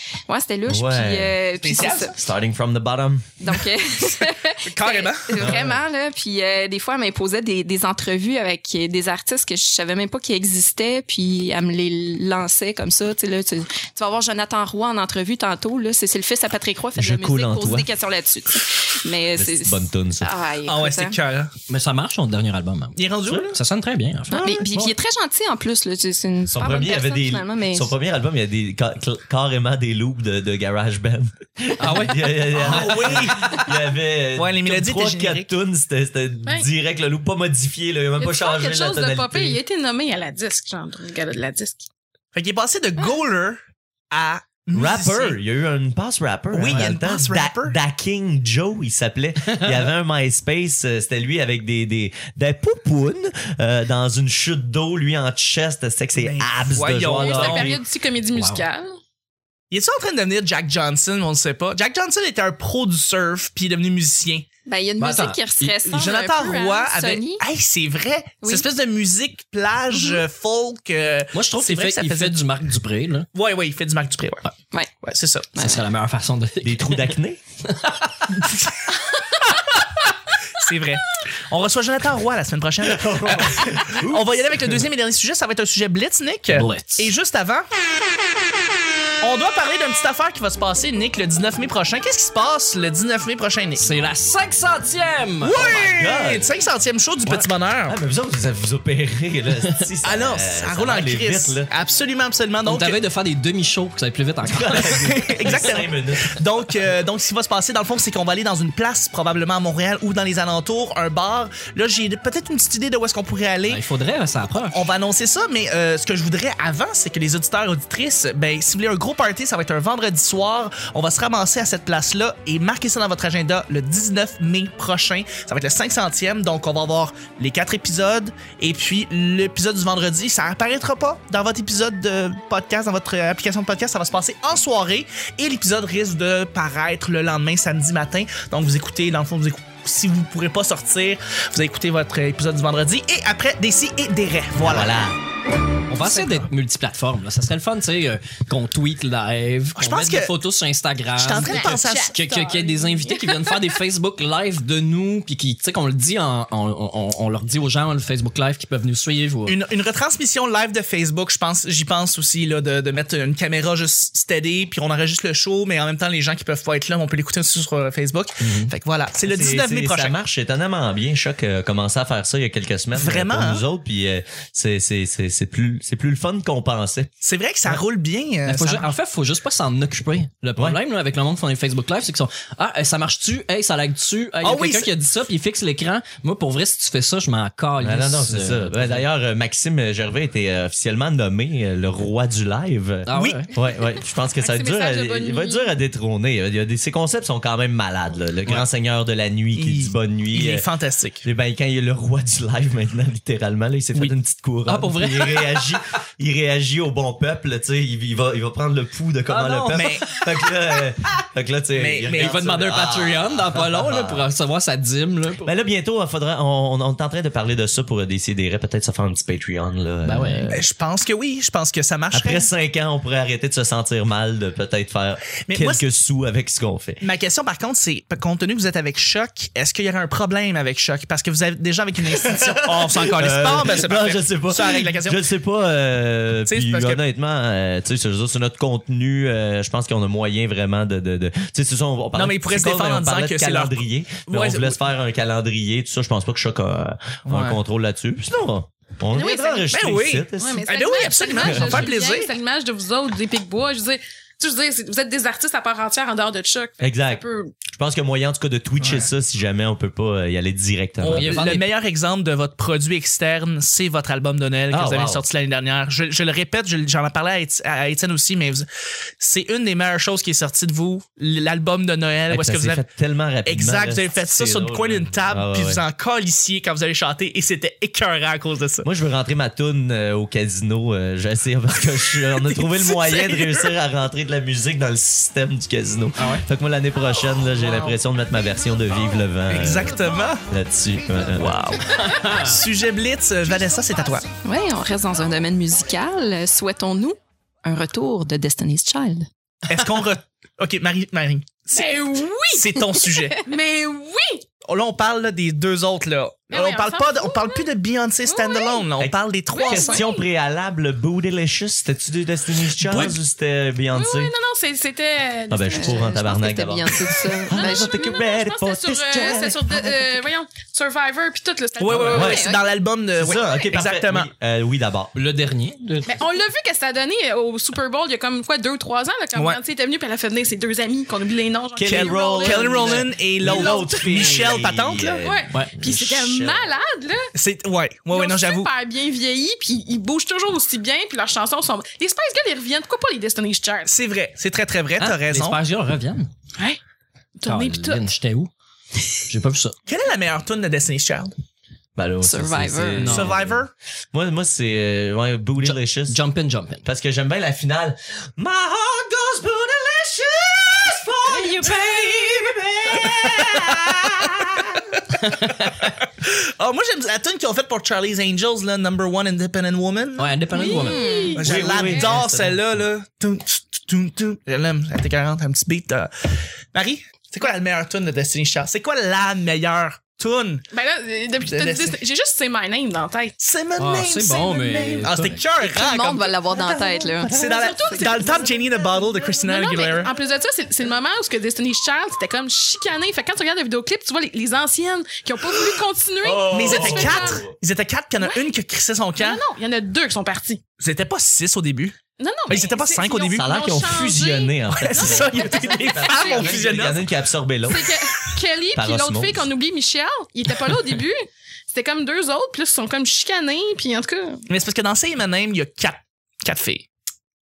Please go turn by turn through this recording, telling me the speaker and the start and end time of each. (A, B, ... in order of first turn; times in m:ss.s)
0:00.3-0:02.2 A
0:00.7-0:01.4 B
0:01.6-0:02.2 C
0:02.1-0:03.4 B
0:03.4-0:21.1 A
0:04.6-0:05.4 C
0:05.4-0:05.8 B
0:16.9-0:17.9 B
0:19.4-0:20.3 B
0:20.6-0:21.5 C
0:21.7-0:24.4 D
0:23.0-0:23.6 C
0:24.3-0:25.0 B
0:24.3-0:27.9 A
0:26.5-0:39.6 B
0:31.8-0:32.5 D
0:32.5-0:33.7 C
0:34.4-0:35.5 C
0:38.2-0:41.9 E
0:42.3-0:43.6 C
0:44.1-0:45.4 C
0:44.7-0:57.8 B
0:46.5-0:47.8 C
0:56.2-0:57.8 C
0:57.0-0:59.0 E
0:58.3-0:58.6 D
0:59.7-1:04.5 C
1:04.6-1:07.4 A
1:05.0-1:05.7 D
1:05.8-1:12.4 C
1:08.4-1:08.7 A
1:09.9-1:10.2 A
1:11.3-1:13.3 D
1:13.3-1:14.5 C
1:15.0-1:15.5 C
1:15.6-1:15.8 A
1:15.6-1:18.5 D
1:16.6-1:17.4 B
1:20.6-1:27.7 C
1:22.9-1:24.8 B
1:26.5-1:27.1 D
1:29.2-1:33.8 C
1:33.8-1:35.8 D
1:35.4-1:38.0 C
1:35.6-1:36.5 B
1:37.9-1:41.7 B
1:40.0-1:43.0 C
1:42.6-1:45.5 D
1:44.4-1:46.4 B
1:44.9-1:53.8 C
1:53.7-1:54.8 D
1:54.7-2:24.9 C
2:24.6-2:25.2 B
2:25.9-2:39.6 D
2:26.0-2:26.5 C
2:29.8-2:30.3 C
2:31.2-2:32.2 C
2:31.4-2:33.7 E
2:39.5-2:50.1 C
2:48.4-2:48.7 D
2:49.2-2:57.1 B
2:53.0-2:53.6 C
2:57.2-2:58.8 C
2:58.5-3:09.0 D
3:04.4-3:04.9 C
3:07.8-3:20.6 B
3:13.0-3:13.5 D
3:13.1-3:13.4 C
3:14.4-3:15.7 E
3:19.6-3:21.2 C
3:21.2-3:34.2 B
3:24.7-3:25.6 C
3:29.3-3:30.2 D
3:29.7-3:30.1 C
3:31.8-3:32.5 C
3:32.1-3:35.5 D
3:35.4-3:40.5 B
3:40.0-3:40.6 D
3:40.5-3:42.5 C
3:42.1-3:47.0 B
3:45.5-3:45.8 C
3:47.0-3:55.2 C
3:52.2-4:10.7 B
3:56.5-3:57.0 C
4:02.1-4:04.8 C
4:07.3-4:07.6 C
4:09.1-4:09.7 E
4:09.7-4:12.3 C
4:10.4-4:17.5 E
4:11.4-4:11.9 B
4:16.8-4:21.4 B
4:18.8-4:19.1 C
4:21.0-4:28.7 C
4:21.0-4:21.7 D
4:24.7-4:25.2 B
4:29.2-4:32.8 C
4:32.3-4:35.8 B
4:33.4-4:38.9 C
4:38.8-4:51.8 B
4:42.1-4:43.7 C
4:46.2-4:46.4 D
4:47.6-4:47.9 C
4:49.5-4:50.4 C
4:51.4-4:54.2 C
4:51.8-4:52.6 D
4:53.5-4:54.2 E
4:54.4-4:59.3 A
4:59.7-5:03.4 C
5:01.7-5:02.7 E
5:03.4-5:04.4 E
5:04.6-5:10.0 C
5:06.5-5:07.7 E
5:08.3-5:08.9 E
5:09.0-5:14.3 B
5:09.5-5:10.2 E
5:12.8-5:13.2 C
5:13.9-5:16.2 E
5:15.5-5:20.1 B
5:15.7-5:18.0 A
5:17.5-5:22.4 E
5:21.8-5:24.3 C
5:21.9-5:22.1 D
5:22.1-5:22.5 B
5:22.1-5:22.6 A
5:23.2-5:25.1 B
5:25.1-5:26.2 D
5:26.1-5:34.6 E
5:31.7-5:36.7 B
5:31.9-5:35.2 C
5:35.2-5:37.3 E
5:37.4-5:38.7 C
5:38.1-5:43.9 E
5:43.9-5:45.6 C
5:45.0-5:46.3 D
5:47.4-5:48.0 E
5:47.4-5:48.5 D
5:49.2-5:49.7 D
5:49.9-5:51.3 C
5:52.0-5:53.6 B
5:52.2-5:53.1 A
5:53.0-5:53.3 D
5:53.0-5:53.7 C
5:54.1-5:56.2 B
5:55.6-5:56.8 D
5:56.8-6:04.8 B
6:01.3-6:01.7 D
6:03.1-6:03.9 C
6:05.1-6:06.0 D
6:06.1-6:10.8 C
6:10.2-6:11.8 D
6:10.5-6:11.6 A
6:11.3-6:12.9 B
6:11.4-6:20.6 C
6:11.8-6:12.2 E
6:20.7-6:23.4 E
6:21.4-6:22.0 C
6:23.4-6:30.1 C
6:23.8-6:25.4 D
6:25.6-6:27.4 A
6:27.2-6:37.4 E
6:36.2-6:37.5 B
6:36.5-6:39.4 C
6:38.2-6:38.5 E
6:39.2-6:40.6 E
6:40.8-6:42.0 C
6:42.2-6:46.9 E
6:42.5-6:43.4 C
6:43.3-6:47.9 B
6:44.7-6:47.1 C
6:47.7-6:54.5 E
6:48.7-6:49.4 B
6:54.5-6:56.9 C